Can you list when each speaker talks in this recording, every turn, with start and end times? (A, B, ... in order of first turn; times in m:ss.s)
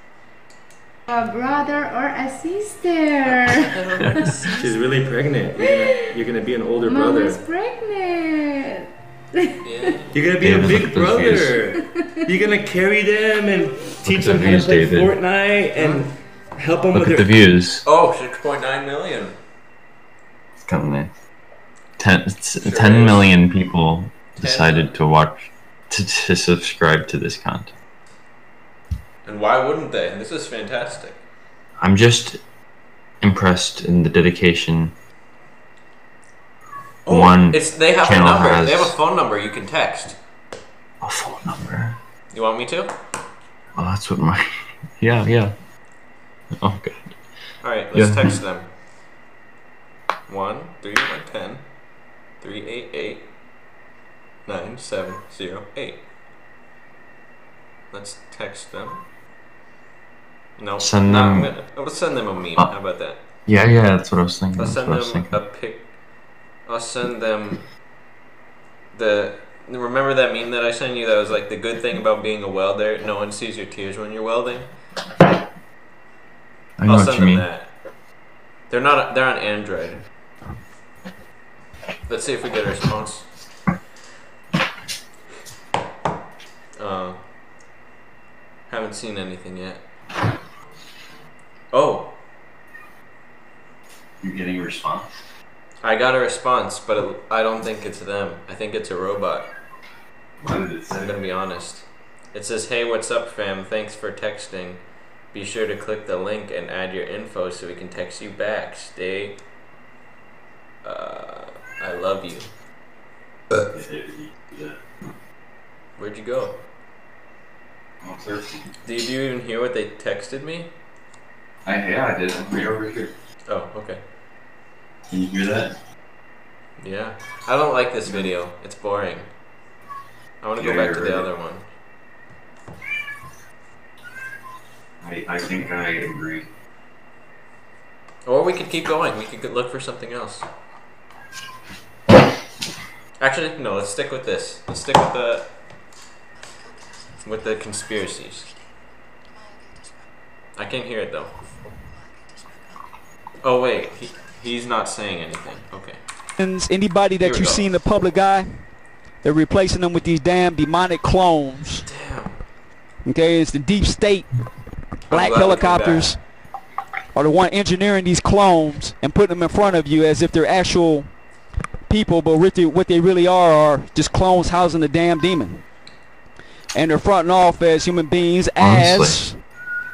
0:01.1-0:04.3 A
0:03.2-0:04.8 B
0:04.6-0:07.4 C
0:05.6-0:06.1 A
0:06.8-0:10.0 A
0:09.6-0:10.2 B
0:10.1-0:17.3 C
0:10.4-0:11.6 D
0:11.7-0:12.2 A
0:14.0-0:15.2 D
0:16.9-0:17.8 D
0:17.8-0:19.4 B
0:20.6-0:21.1 D
0:22.0-0:27.7 D
0:22.6-0:23.3 B
0:24.4-0:25.0 B
0:29.2-0:31.2 B
0:31.8-0:32.4 D
0:33.2-0:34.9 D
0:37.1-0:40.2 B
0:37.1-0:39.0 D
0:41.0-0:42.0 D
0:42.3-0:42.9 B
0:43.8-0:44.5 D
0:45.0-0:45.5 D
0:46.6-0:47.1 D
0:47.6-0:48.7 B
0:47.9-0:48.4 D
0:50.3-0:51.6 B
0:52.4-0:53.3 B
0:54.5-0:56.0 B
0:57.9-0:59.0 B
1:00.6-1:03.2 B
1:00.8-1:01.5 D
1:03.5-1:05.4 D
1:04.6-1:05.8 B
1:06.7-1:07.6 B
1:08.9-1:14.7 B
1:16.8-1:17.4 D
1:16.8-1:17.7 B
1:18.7-1:20.0 B
1:22.1-1:23.3 B
1:26.8-1:27.2 B
1:28.7-1:29.8 B
1:31.7-1:32.1 B
1:34.2-1:35.1 D
1:35.8-1:39.5 B
1:40.4-1:41.1 D
1:40.9-1:44.8 B
1:45.3-1:49.4 B
1:50.8-1:52.5 B
1:53.6-1:54.8 D
1:56.0-1:56.6 B
1:58.0-1:58.7 D
1:58.8-2:00.7 B
2:01.6-2:03.1 D
2:03.5-2:04.0 B
2:05.1-2:05.8 D
2:06.8-2:09.3 B
2:10.4-2:11.6 B
2:10.6-2:11.3 D
2:15.0-2:16.5 D
2:18.3-2:20.4 B
2:23.2-2:25.5 B
2:27.2-2:28.5 B
2:30.6-2:31.3 B
2:33.4-2:36.0 B
2:36.4-2:38.6 E
2:37.2-2:37.7 B
2:39.2-2:41.9 E
2:41.9-2:42.4 B
2:43.0-2:44.3 E
2:45.1-2:46.2 B
2:45.1-2:46.2 E
2:47.1-2:51.1 E
2:51.9-2:55.6 E
2:56.7-2:59.4 E
2:58.6-2:59.2 D